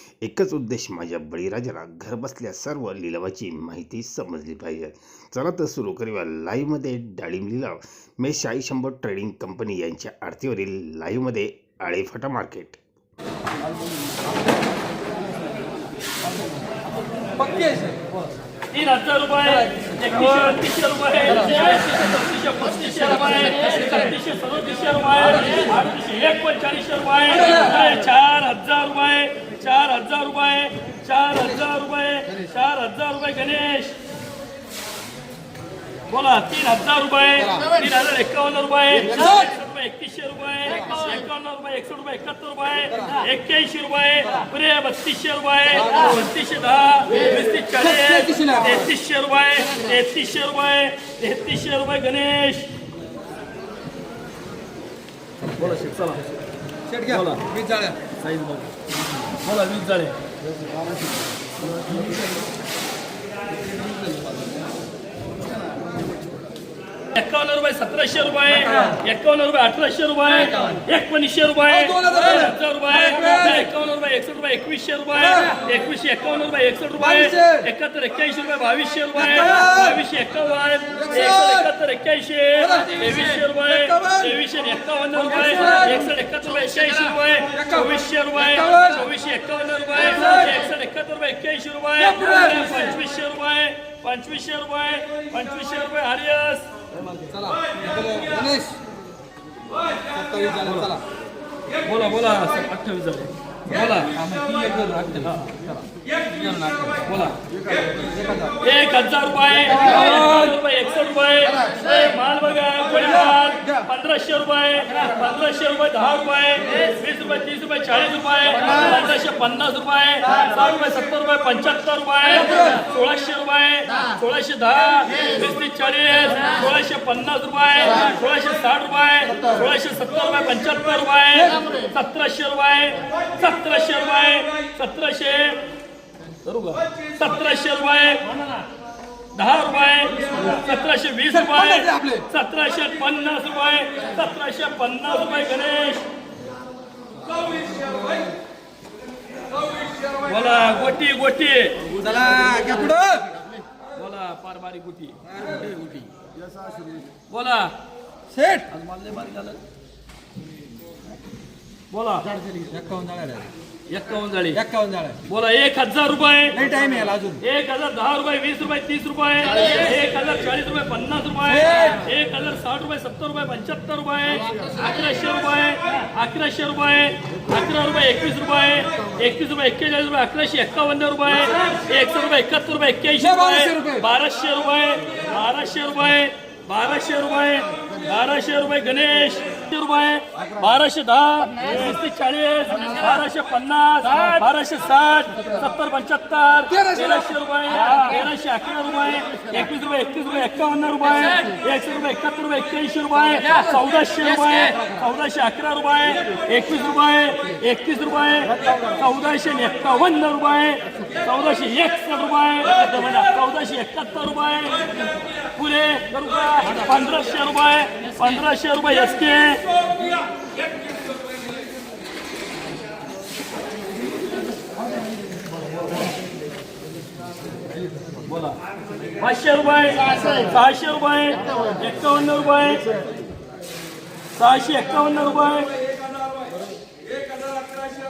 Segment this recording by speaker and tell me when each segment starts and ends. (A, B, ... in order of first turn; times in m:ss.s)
0:00.2-0:12.8 A
0:17.3-0:18.1 B
0:18.7-0:34.0 C
0:19.6-0:20.4 B
0:27.4-0:27.6 B
0:36.1-0:52.7 C
0:37.4-0:37.7 B
0:39.0-0:39.6 B
0:42.9-0:43.2 B
0:45.8-0:46.2 B
0:47.8-0:48.9 B
0:55.6-0:56.3 C
0:56.9-0:58.0 B
0:57.1-0:57.5 C
0:58.2-0:58.8 C
0:59.4-1:00.2 C
1:03.8-1:04.4 B
1:07.1-1:36.7 C
1:08.5-1:09.0 B
1:10.4-1:10.8 B
1:11.7-1:13.7 B
1:15.2-1:15.6 B
1:17.0-1:17.7 B
1:19.2-1:20.0 B
1:21.0-1:21.7 B
1:22.6-1:24.4 B
1:25.2-1:26.1 B
1:27.5-1:29.0 B
1:30.0-1:30.6 B
1:32.0-1:32.9 B
1:36.9-1:38.8 B
1:39.9-1:41.0 B
1:40.6-1:40.9 C
1:41.8-1:44.2 C
1:43.9-1:48.6 B
1:45.2-1:45.5 C
1:47.0-1:47.4 C
1:48.6-2:15.6 C
1:49.8-1:50.4 B
1:53.0-1:53.8 B
2:02.3-2:02.8 B
2:11.4-2:11.7 B
2:16.4-2:18.4 C
2:19.3-2:26.1 C
2:21.3-2:22.3 B
2:27.4-2:28.3 B
2:30.2-2:32.0 C
2:31.9-2:33.4 B
2:33.9-2:35.2 C
2:35.3-2:36.1 B
2:36.6-2:37.0 B
2:37.3-2:37.8 C
2:38.3-2:38.7 B
2:38.7-2:39.6 C
2:41.9-2:42.4 C
2:42.4-2:43.5 B
2:43.9-2:44.6 C
2:44.6-2:45.2 B
2:45.2-2:46.6 C
2:46.6-2:47.4 B
2:47.4-3:39.7 C
2:51.5-2:52.0 B
3:03.2-3:04.0 B
3:16.7-3:17.4 B
3:23.5-3:23.8 B
3:48.2-3:48.6 C
3:49.2-3:52.9 C
3:54.4-3:55.9 C
3:57.5-3:57.8 B